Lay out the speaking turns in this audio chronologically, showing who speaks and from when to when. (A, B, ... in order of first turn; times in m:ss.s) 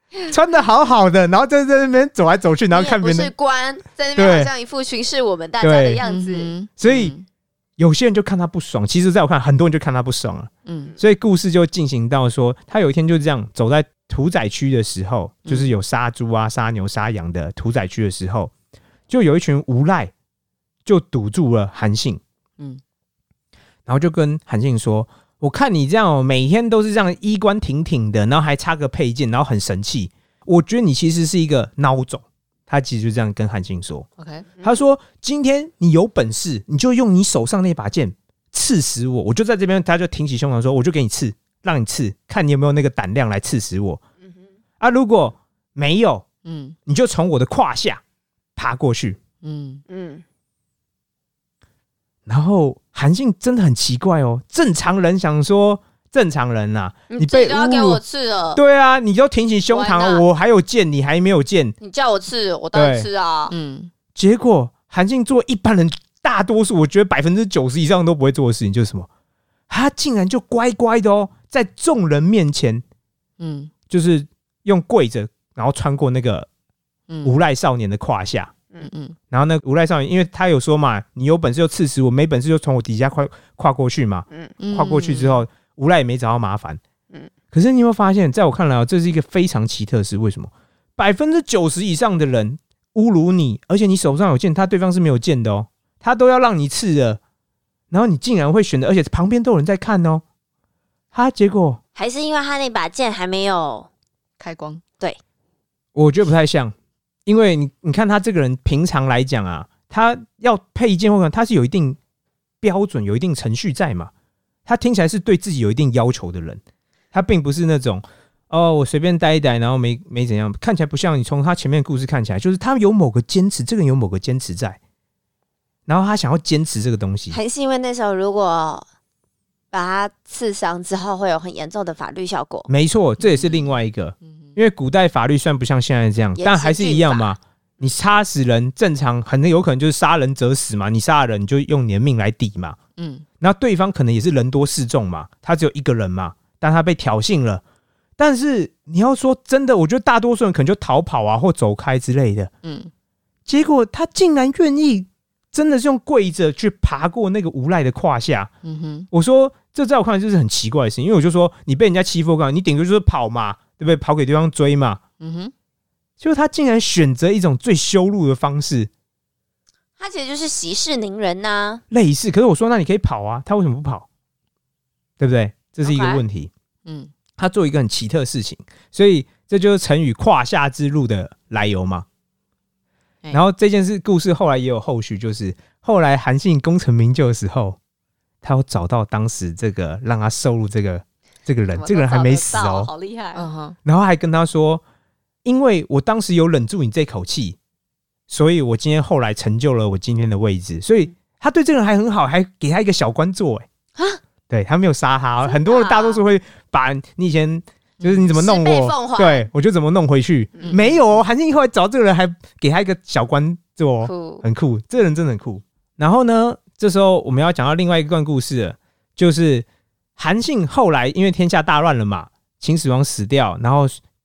0:00.3-0:03.3 A
0:02.7-0:06.5 B
0:04.2-0:04.5 A
0:05.6-0:06.0 A
0:06.0-0:07.3 C
0:06.8-0:07.1 A
0:07.8-0:18.5 A
0:10.7-0:10.9 C
0:19.1-0:20.1 A
0:20.9-0:22.2 A
0:23.9-0:34.1 A
0:34.2-0:34.5 C
0:34.6-0:44.0 A
0:44.8-0:46.2 A
0:46.4-0:46.8 C
0:46.9-0:48.0 A
0:48.6-0:49.2 A
0:49.4-0:49.8 C
0:49.9-0:50.2 B
0:52.3-0:58.0 A
0:57.1-0:58.6 B
0:58.6-1:01.8 A
0:59.7-1:00.2 B
1:01.8-1:03.5 B
1:02.7-1:03.1 A
1:03.5-1:03.9 C
1:04.2-1:09.1 A
1:09.7-1:12.8 A
1:13.4-1:13.7 C
1:13.9-1:16.5 A
1:17.1-1:17.4 C
1:17.2-1:18.5 A
1:18.8-1:19.2 C
1:19.3-1:26.8 A
1:24.6-1:25.4 C
1:27.5-1:37.2 A
1:37.9-1:40.2 A
1:41.1-1:41.8 A
1:42.0-1:43.9 B
1:44.4-1:44.8 C
1:46.0-1:46.7 A
1:47.3-1:52.0 A
1:52.6-1:54.1 A
1:54.7-1:56.6 A
1:57.1-2:04.8 A
2:05.9-2:07.4 A
2:07.3-2:08.8 B
2:09.7-2:12.7 B
2:12.7-2:22.8 A
2:13.2-2:13.6 C
2:16.4-2:17.4 B
2:23.0-2:23.2 C
2:23.4-2:27.6 A
2:28.2-2:32.5 A
2:32.6-2:32.9 C
2:33.5-2:38.5 A
2:38.6-2:39.1 C
2:39.1-2:45.0 A
2:45.2-2:45.5 C
2:46.2-2:48.9 A
2:50.0-2:51.8 B
2:51.9-2:54.1 A
2:55.2-2:56.5 A
2:55.8-2:56.2 B
2:56.9-2:57.1 C
2:57.4-3:02.1 A
3:03.3-3:07.8 A
3:08.4-3:12.9 A
3:11.7-3:13.5 B
3:13.4-3:13.8 C
3:13.8-3:14.8 A
3:15.4-3:17.6 A
3:18.3-3:23.7 A
3:24.0-3:24.2 B
3:24.5-3:39.6 A
3:25.4-3:26.2 B
3:28.0-3:28.3 C
3:28.3-3:29.5 B
3:30.7-3:31.2 C
3:34.0-3:34.4 B
3:40.2-3:44.0 A